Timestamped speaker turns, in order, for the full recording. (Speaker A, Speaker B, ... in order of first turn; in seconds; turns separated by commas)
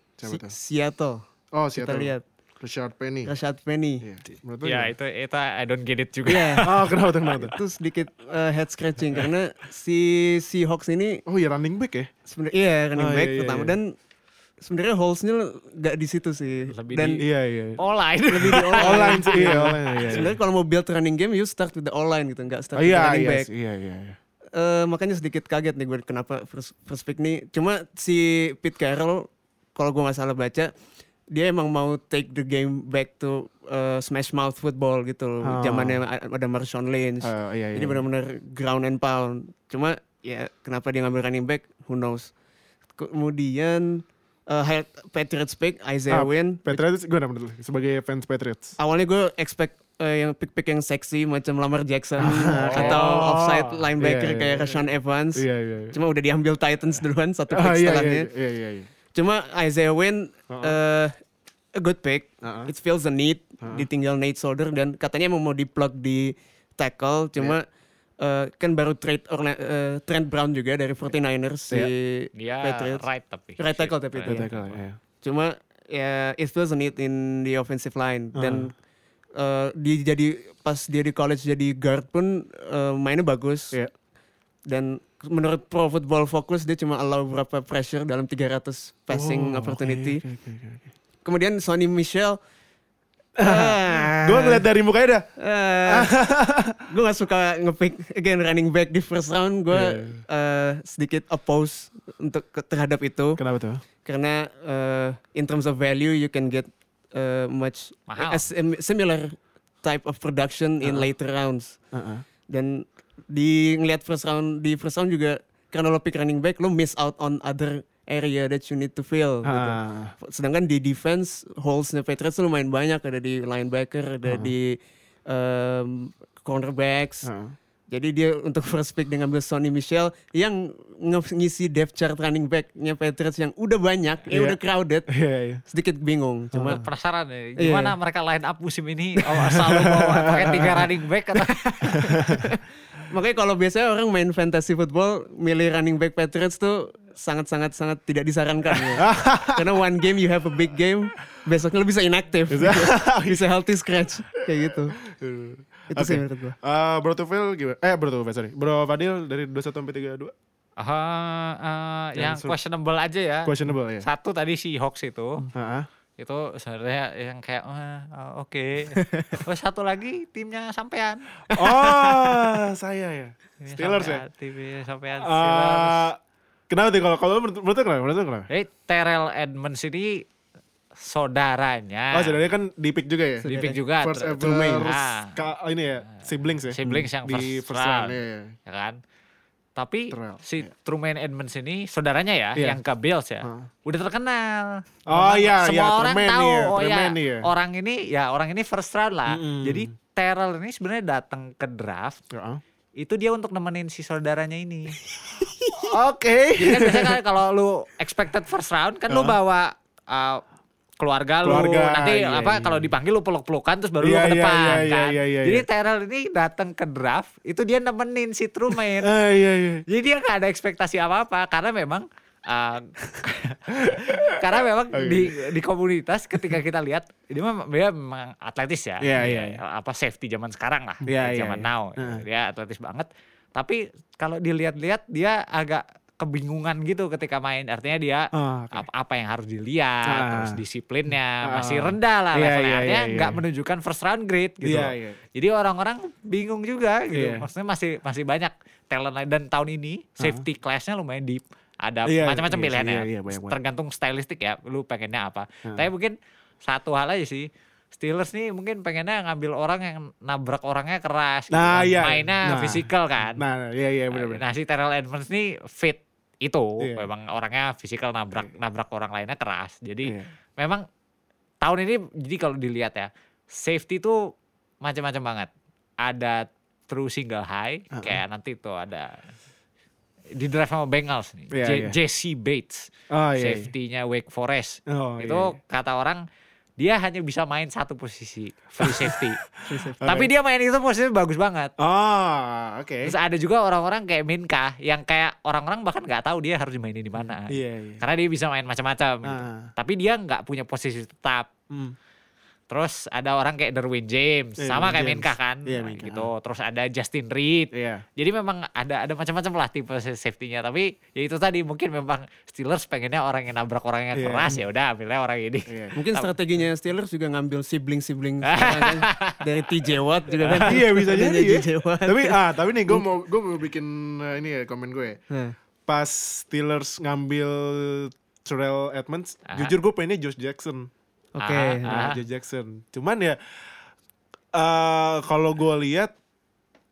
Speaker A: 0.2-0.5, Speaker B: 0.2-2.2, Speaker A: 1.5-3.3, Speaker B: 3.2-4.0, Speaker A: 4.0-4.9, Speaker C: 4.6-6.9, Speaker B: 6.2-6.7, Speaker A: 6.6-7.5, Speaker B: 7.3-11.2, Speaker A: 11.3-12.1, Speaker B: 12.2-13.9, Speaker A: 12.9-13.8, Speaker B: 14.6-17.2, Speaker C: 16.7-17.2, Speaker A: 17.2-17.8, Speaker C: 17.8-20.3, Speaker B: 18.3-23.5, Speaker A: 18.7-20.3, Speaker A: 22.7-24.2, Speaker B: 24.5-30.7, Speaker B: 31.3-42.3, Speaker A: 35.4-36.0, Speaker A: 37.2-38.0, Speaker B: 43.0-46.8, Speaker A: 46.1-48.7, Speaker B: 48.8-58.3, Speaker A: 52.2-54.8, Speaker C: 52.7-53.0, Speaker A: 55.4-56.0, Speaker A: 57.5-58.9, Speaker B: 59.1-61.1, Speaker A: 60.5-60.8, Speaker B: 61.8-67.7, Speaker A: 62.4-62.7, Speaker B: 68.2-73.0, Speaker C: 72.3-74.8, Speaker B: 73.6-74.5, Speaker A: 74.3-75.0, Speaker B: 75.2-78.7, Speaker A: 78.3-78.7, Speaker B: 79.3-83.8, Speaker B: 84.7-90.2, Speaker A: 89.1-90.8, Speaker B: 91.2-92.4, Speaker A: 93.4-95.3, Speaker B: 93.4-94.6, Speaker B: 95.4-96.1, Speaker A: 95.8-96.8, Speaker B: 96.9-103.4, Speaker A: 99.7-100.2, Speaker A: 103.4-103.8, Speaker B: 104.0-111.8, Speaker C: 108.1-108.4, Speaker A: 111.9-112.2, Speaker B: 112.5-127.3, Speaker A: 119.4-120.1, Speaker A: 124.2-124.5, Speaker A: 127.2-127.5, Speaker B: 127.9-135.1, Speaker A: 134.3-134.6, Speaker A: 135.1-135.6, Speaker B: 135.7-136.8, Speaker A: 136.5-136.8, Speaker C: 136.7-141.7, Speaker B: 137.6-137.9, Speaker A: 139.3-140.9, Speaker B: 141.4-154.9, Speaker A: 142.1-142.4, Speaker A: 148.7-149.7, Speaker A: 152.5-153.4, Speaker A: 154.6-160.3, Speaker B: 155.9-156.6, Speaker C: 160.8-165.4, Speaker A: 162.2-162.6, Speaker A: 163.4-164.1, Speaker A: 165.5-165.9, Speaker C: 166.2-171.5, Speaker B: 168.9-169.4, Speaker A: 171.5-174.2, Speaker B: 171.6-172.3, Speaker C: 173.6-176.1, Speaker A: 175.2-178.5, Speaker C: 178.5-180.2, Speaker C: 180.9-182.4, Speaker A: 182.1-188.5, Speaker B: 183.4-183.8, Speaker C: 183.5-185.4, Speaker B: 184.4-184.8, Speaker C: 186.7-189.0, Speaker C: 189.8-202.2, Speaker A: 190.1-190.7, Speaker A: 193.4-193.7, Speaker A: 195.1-197.5, Speaker A: 199.3-199.9, Speaker A: 202.3-202.6, Speaker C: 203.0-205.0, Speaker B: 205.3-205.9, Speaker A: 205.8-207.2, Speaker C: 206.6-210.4, Speaker A: 209.1-209.4, Speaker C: 211.0-219.1, Speaker A: 211.4-212.9, Speaker A: 214.0-215.7, Speaker A: 218.9-219.8, Speaker C: 219.9-263.4, Speaker A: 223.7-225.4, Speaker A: 229.0-229.6, Speaker A: 231.1-232.2, Speaker A: 238.3-238.9, Speaker A: 240.1-240.6, Speaker A: 241.4-243.4, Speaker A: 244.6-245.2, Speaker A: 247.1-247.5, Speaker A: 250.2-250.4, Speaker A: 252.1-253.6, Speaker A: 261.5-264.4, Speaker C: 264.1-270.8, Speaker A: 266.8-267.1, Speaker A: 270.0-270.3, Speaker C: 271.6-274.3, Speaker C: 274.8-275.5, Speaker C: 276.0-279.2, Speaker A: 277.9-278.2, Speaker C: 280.4-286.2, Speaker A: 281.5-281.9, Speaker A: 283.1-283.7, Speaker A: 284.9-285.6, Speaker C: 286.8-289.4, Speaker A: 288.8-289.2, Speaker B: 289.6-290.0, Speaker A: 289.9-290.3, Speaker C: 290.0-291.7, Speaker A: 291.8-293.1, Speaker C: 293.1-301.5, Speaker A: 297.5-298.0, Speaker A: 299.2-299.7, Speaker A: 301.7-302.0, Speaker C: 302.7-316.3, Speaker A: 304.6-306.3, Speaker A: 307.7-308.0, Speaker A: 314.1-314.6, Speaker A: 315.7-316.0, Speaker B: 315.9-322.4, Speaker C: 318.4-320.7, Speaker A: 320.6-325.2, Speaker A: 325.9-330.9, Speaker B: 331.4-332.1, Speaker C: 331.4-332.2, Speaker A: 331.9-333.8, Speaker A: 334.5-336.1